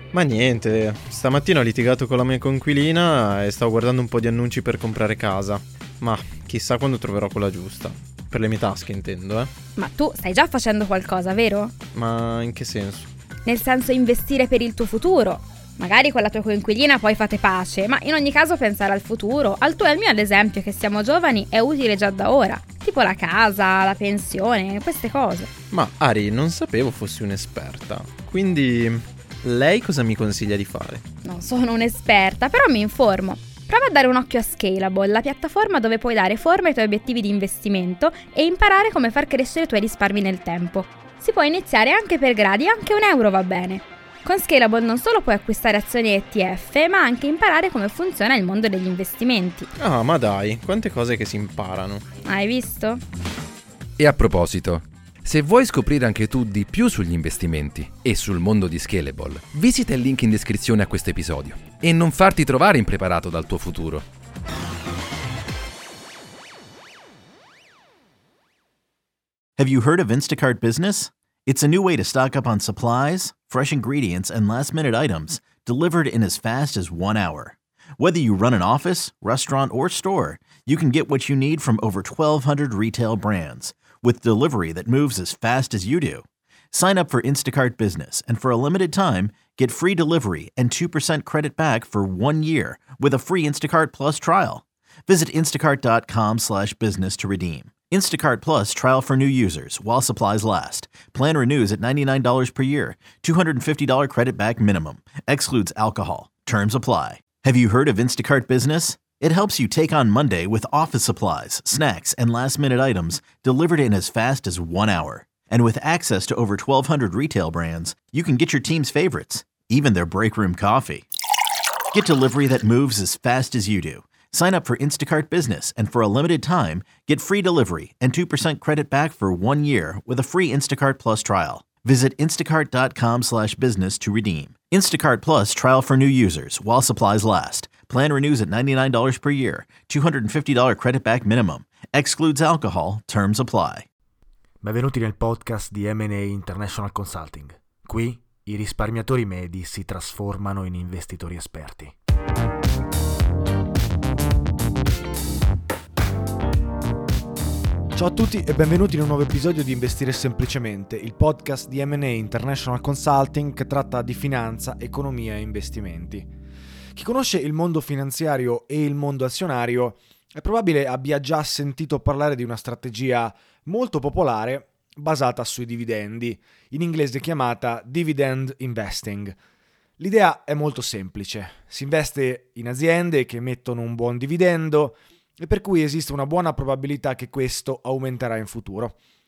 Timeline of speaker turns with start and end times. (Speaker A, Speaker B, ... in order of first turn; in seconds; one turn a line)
Speaker A: 0.1-9.5
Speaker B: 9.8-11.7
Speaker A: 11.9-13.1
Speaker B: 13.4-25.5
Speaker A: 25.7-31.0
Speaker B: 31.2-49.7
Speaker A: 49.8-52.0
Speaker B: 52.2-53.0
Speaker C: 54.0-64.0
Speaker D: 69.6-121.0
Speaker D: 121.9-143.8
Speaker E: 144.6-151.9
Speaker E: 157.9-166.3
Speaker E: 166.9-179.3
Speaker E: 180.0-188.9